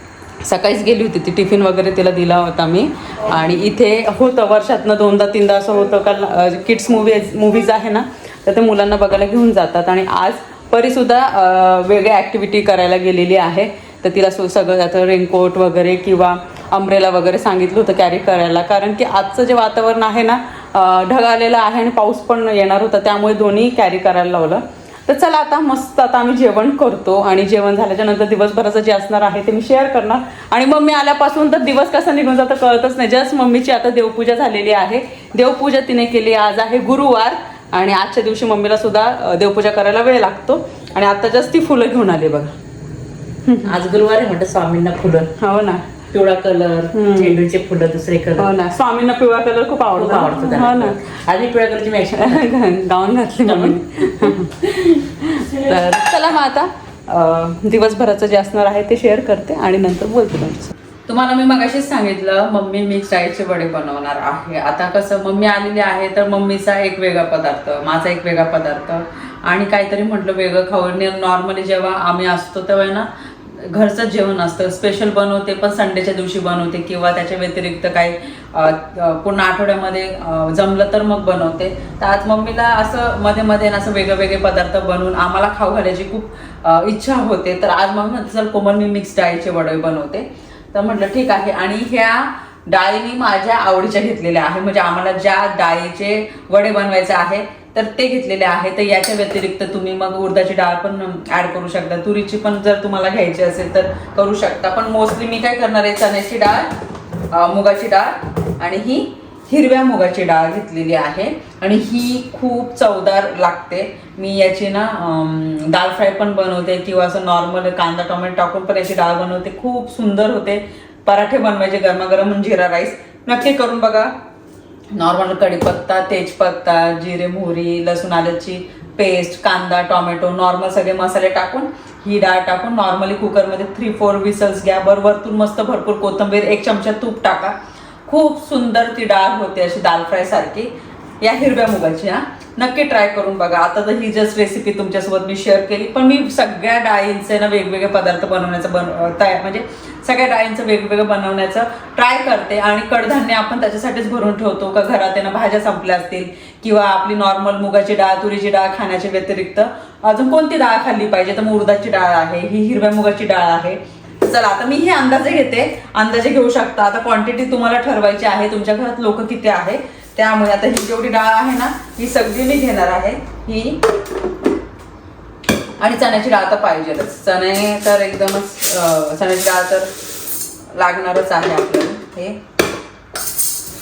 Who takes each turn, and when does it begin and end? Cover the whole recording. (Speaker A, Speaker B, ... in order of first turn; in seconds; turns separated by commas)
Speaker A: 0.4-42.5, Speaker A: 43.4-43.7, Speaker B: 43.6-45.3, Speaker A: 45.4-45.9, Speaker B: 46.1-48.5, Speaker A: 46.9-47.4, Speaker A: 48.4-51.0, Speaker B: 49.9-52.5, Speaker A: 52.1-106.7, Speaker B: 53.4-54.9, Speaker B: 55.5-56.0, Speaker A: 107.3-124.1, Speaker A: 124.9-173.8, Speaker A: 175.8-179.9, Speaker A: 180.7-182.4